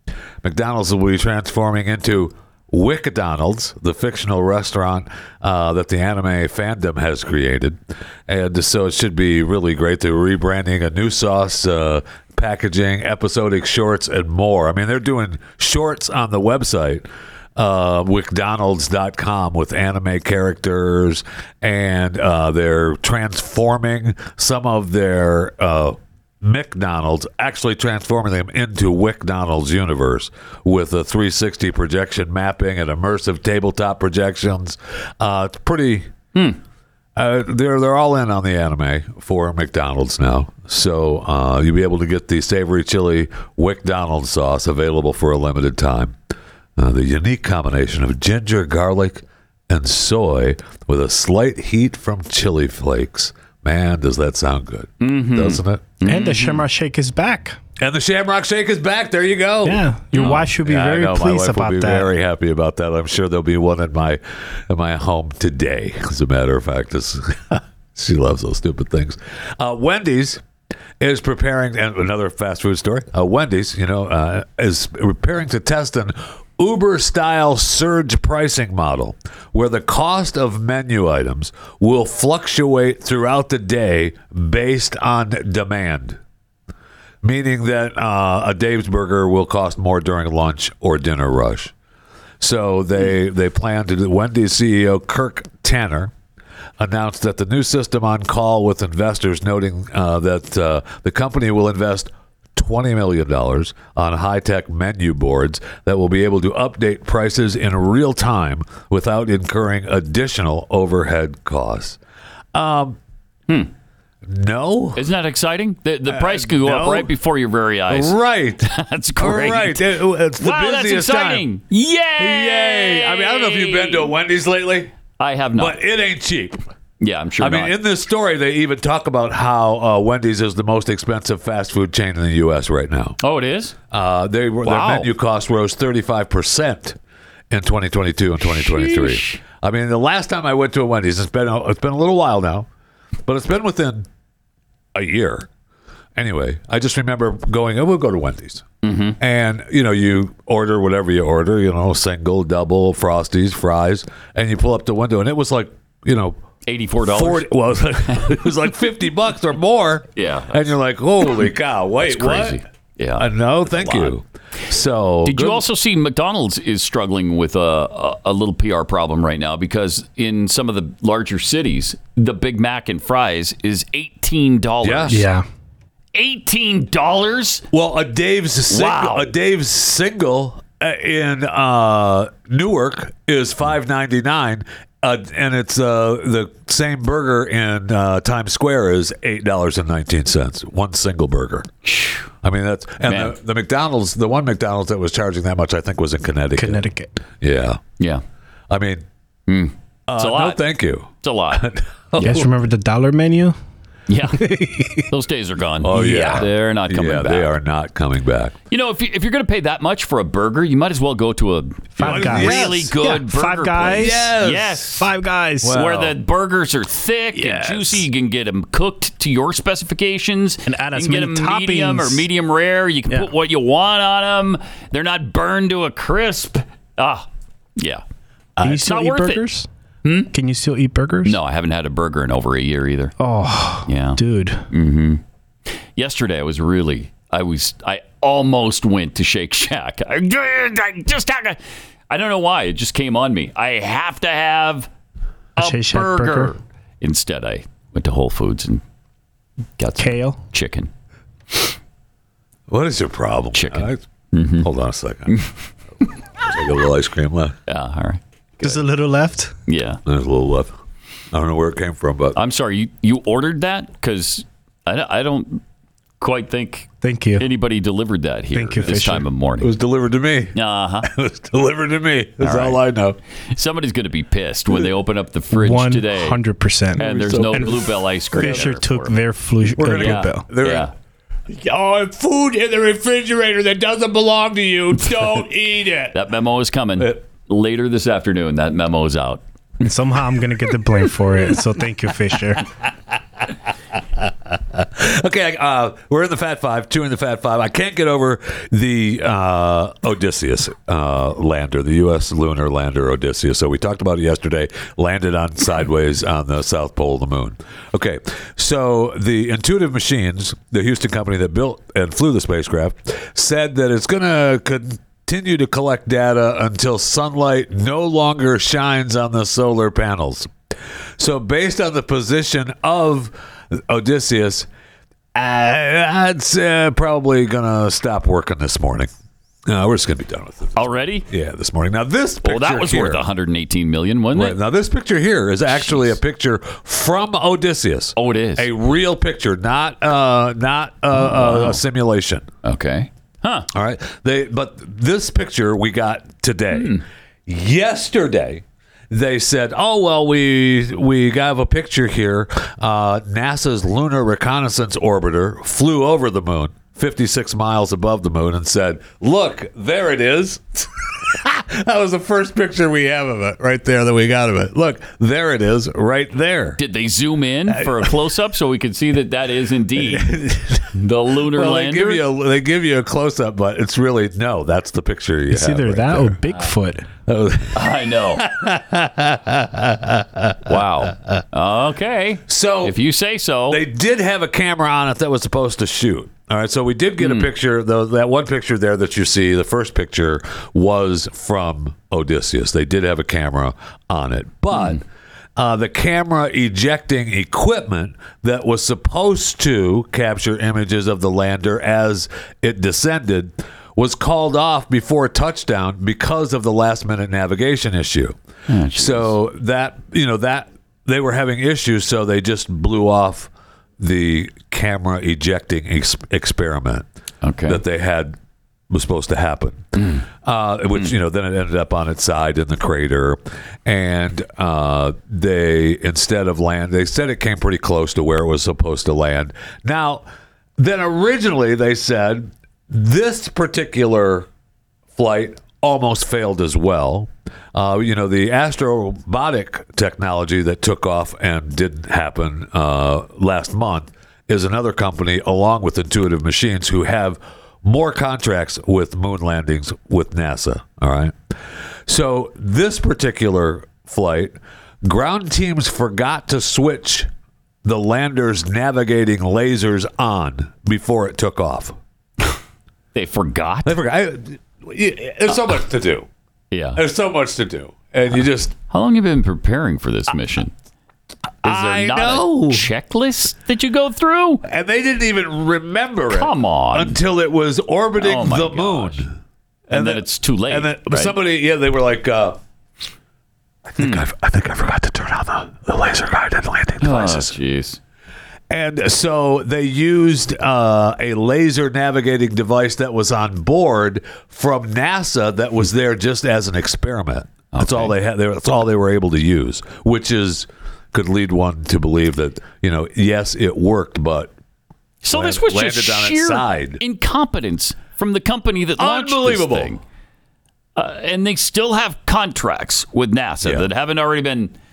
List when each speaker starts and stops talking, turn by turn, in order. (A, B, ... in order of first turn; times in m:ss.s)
0:00.4-0:36.1 A
0:37.2-0:46.2 A
0:46.8-0:55.8 A
0:55.0-0:56.6 B
0:56.0-0:57.6 C
0:57.8-1:10.4 A
0:59.6-1:02.1 C
1:00.1-1:00.5 B
1:11.0-1:26.2 A
1:27.2-1:31.7 A
1:32.4-1:36.1 A
1:36.8-1:52.0 A
1:52.5-1:53.0 A
1:54.2-1:55.0 A
1:55.0-2:04.1 B
1:56.1-1:57.1 A
1:57.9-2:01.4 A
2:02.2-2:04.9 A
2:05.2-2:05.8 B
2:05.6-2:06.6 A
2:07.0-2:07.8 B
2:07.4-2:13.2 A
2:13.2-2:13.8 B
2:13.9-2:17.0 A
2:14.6-2:15.1 B
2:17.5-2:22.7 A
2:18.4-2:19.4 B
2:23.2-2:24.1 A
2:24.9-2:25.5 A
2:26.2-2:28.6 A
2:28.8-2:29.2 B
2:29.2-2:36.4 A
2:36.6-2:37.5 B
2:37.0-2:42.6 A
2:38.1-2:38.4 B
2:40.2-2:40.6 B
2:42.0-2:44.2 B
2:43.2-2:45.6 A
2:45.2-2:55.2 B
2:54.8-2:55.2 A
2:55.1-2:55.4 C
2:56.1-2:57.6 B
2:57.7-3:11.7 A
2:58.7-2:59.3 B
3:11.8-3:12.3 B
3:12.4-3:16.8 A
3:13.0-3:13.4 B
3:16.6-3:17.1 C
3:17.4-3:17.8 A
3:18.7-3:19.0 A
3:19.5-3:20.6 B
3:20.1-3:22.5 A
3:21.2-3:21.6 B
3:22.2-3:22.4 B
3:22.2-3:23.5 C
3:24.1-3:24.5 B
3:24.4-3:25.0 C
3:25.1-3:27.5 B
3:25.8-3:28.6 A
3:26.0-3:26.4 C
3:28.7-3:35.1 B
3:32.0-3:34.3 C
3:32.0-3:32.9 A
3:33.9-3:34.8 A
3:35.0-3:35.8 C
3:35.6-3:36.2 A
3:35.6-3:48.0 B
3:37.4-3:38.0 C
3:40.6-3:42.2 C
3:48.6-3:49.4 B
3:48.6-3:49.7 C
3:50.0-3:50.3 B
3:50.3-3:51.4 C
3:51.2-3:53.1 B
3:53.2-3:54.6 C
3:53.8-3:55.2 B
3:56.0-4:01.6 B
4:02.1-4:04.9 B
4:05.6-4:08.8 B
4:05.6-4:06.5 C
4:09.8-4:10.9 B
4:10.0-4:10.4 C
4:12.7-4:14.0 A
4:13.5-4:14.7 B
4:14.6-4:15.3 A
4:16.4-4:17.6 A
4:17.7-4:18.8 B
4:18.6-4:19.5 C
4:19.7-4:20.0 B
4:20.0-4:20.8 A
4:21.3-4:22.4 A
4:22.3-4:25.6 B
4:26.2-4:29.7 B
4:27.0-4:27.4 C
4:28.5-4:29.3 C
4:29.6-4:33.2 A
4:30.5-4:31.1 B
4:32.4-4:32.8 B
4:33.5-4:36.4 B
4:35.5-4:40.4 C
4:37.0-4:38.7 A
4:37.0-4:39.2 B
4:39.7-4:40.9 A
4:39.9-4:40.9 B
4:41.5-4:46.2 A
4:44.9-4:49.4 B
4:49.8-4:52.6 C
4:54.2-5:20.5 A
5:21.2-5:24.7 A
5:25.3-5:29.1 A
5:29.6-5:33.2 A
5:30.8-5:31.3 B
5:32.4-5:34.6 B
5:34.3-5:42.5 A
5:35.7-5:36.1 B
5:38.2-5:38.7 B
5:41.1-5:41.8 B
5:42.6-5:43.7 B
5:43.7-6:06.8 A
5:46.7-5:47.0 B
6:06.8-6:10.3 B
6:07.7-6:08.2 A
6:10.0-6:10.9 A
6:10.9-6:12.2 B
6:11.5-6:16.4 A
6:15.5-6:17.1 C
6:17.3-6:17.8 A
6:17.7-6:18.4 B
6:18.4-6:21.4 A
6:20.6-6:23.8 B
6:22.5-6:23.0 A
6:23.7-6:35.0 A
6:27.2-6:27.5 B
6:34.7-6:35.0 B
6:35.6-6:48.4 A
6:48.7-6:49.4 B
6:48.9-6:57.1 A
6:57.4-6:57.8 B
6:57.7-6:58.4 A
6:58.9-7:10.2 A
7:00.0-7:00.2 B
7:10.8-7:14.5 A
7:15.2-7:31.4 A
7:32.0-7:37.3 A
7:37.8-7:41.9 A
7:43.1-7:44.0 B
7:43.8-7:46.3 A
7:46.7-7:47.0 B
7:47.0-7:48.7 A
7:48.9-7:50.7 B
7:51.6-7:52.8 A
7:51.6-7:54.6 B
7:54.6-7:59.4 A
7:56.3-7:57.2 B
7:58.2-7:59.2 B
7:59.9-8:01.4 B
7:59.9-8:02.6 A
8:03.9-8:07.5 A
8:04.0-8:04.2 B
8:07.0-8:08.0 B
8:08.7-8:24.5 A
8:17.7-8:18.2 B
8:25.2-8:30.0 B
8:25.3-8:27.0 A
8:29.0-8:29.9 A
8:31.0-8:34.7 B
8:33.6-8:33.9 A